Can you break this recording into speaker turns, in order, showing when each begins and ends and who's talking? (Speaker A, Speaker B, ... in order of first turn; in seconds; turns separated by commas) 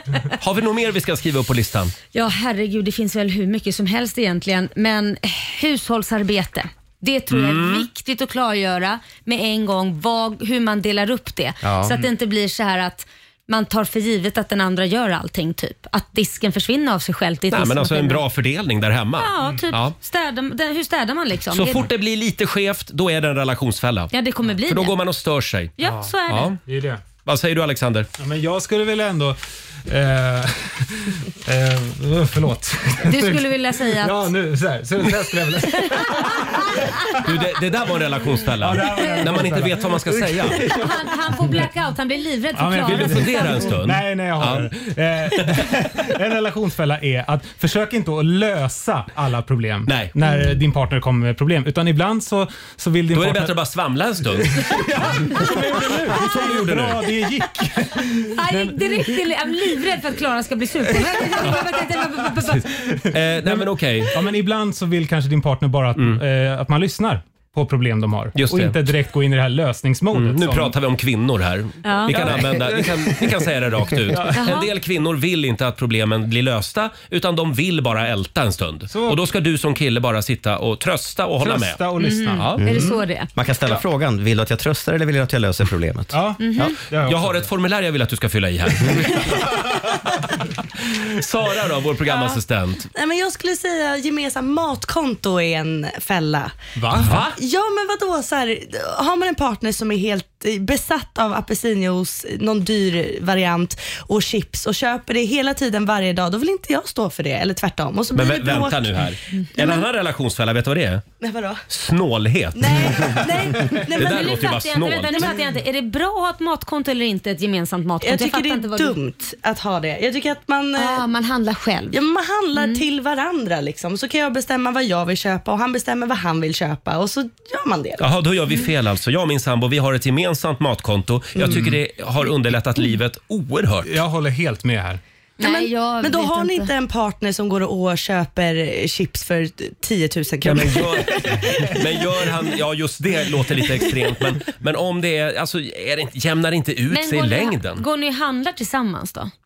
Speaker A: 0.3-1.9, Speaker B: 2.1-18.2, Speaker A: 7.3-7.9, Speaker C: 11.6-12.0, Speaker A: 17.5-19.9, Speaker B: 19.2-21.9, Speaker A: 21.5-24.1, Speaker B: 24.1-25.0, Speaker A: 24.6-25.8, Speaker B: 25.8-26.5, Speaker D: 25.8-26.1, Speaker A: 26.3-26.6, Speaker D: 26.6-27.0, Speaker A: 27.2-28.1, Speaker D: 28.2-37.3, Speaker B: 33.0-34.3, Speaker B: 35.7-36.5, Speaker A: 37.2-40.6, Speaker D: 38.6-40.0, Speaker B: 38.9-39.3, Speaker B: 40.7-43.7, Speaker D: 42.5-53.5, Speaker A: 42.9-44.7, Speaker A: 49.9-50.1, Speaker A: 53.1-54.7, Speaker D: 54.4-58.9, Speaker A: 55.9-57.0, Speaker B: 58.3-62.7, Speaker D: 61.0-61.9, Speaker D: 62.5-70.8, Speaker A: 63.1-64.1, Speaker A: 66.0-66.2, Speaker A: 68.3-68.8, Speaker A: 70.1-81.8, Speaker B: 71.8-72.2, Speaker D: 72.1-73.2, Speaker D: 74.1-74.5, Speaker B: 74.3-74.7, Speaker D: 78.9-79.2, Speaker D: 81.4-83.0, Speaker B: 82.0-83.3, Speaker A: 82.3-82.6, Speaker C: 82.6-86.7, Speaker D: 86.1-87.5, Speaker B: 86.4-86.7, Speaker A: 87.0-89.6, Speaker A: 90.8-92.9, Speaker E: 92.1-92.4, Speaker E: 92.9-96.5, Speaker D: 96.8-97.2, Speaker A: 96.9-97.4, Speaker E: 97.2-109.8, Speaker A: 108.1-111.0, Speaker E: 111.2-111.6, Speaker A: 111.7-115.3, Speaker E: 112.5-114.6, Speaker B: 114.0-119.0, Speaker E: 115.1-115.4, Speaker E: 118.0-121.0, Speaker B: 120.8-122.0, Speaker E: 121.9-128.1, Speaker B: 122.5-122.8, Speaker A: 128.0-133.9, Speaker E: 131.3-131.8, Speaker D: 133.8-135.0, Speaker B: 135.4-136.7, Speaker E: 135.4-142.3, Speaker A: 140.4-147.8, Speaker B: 146.9-149.3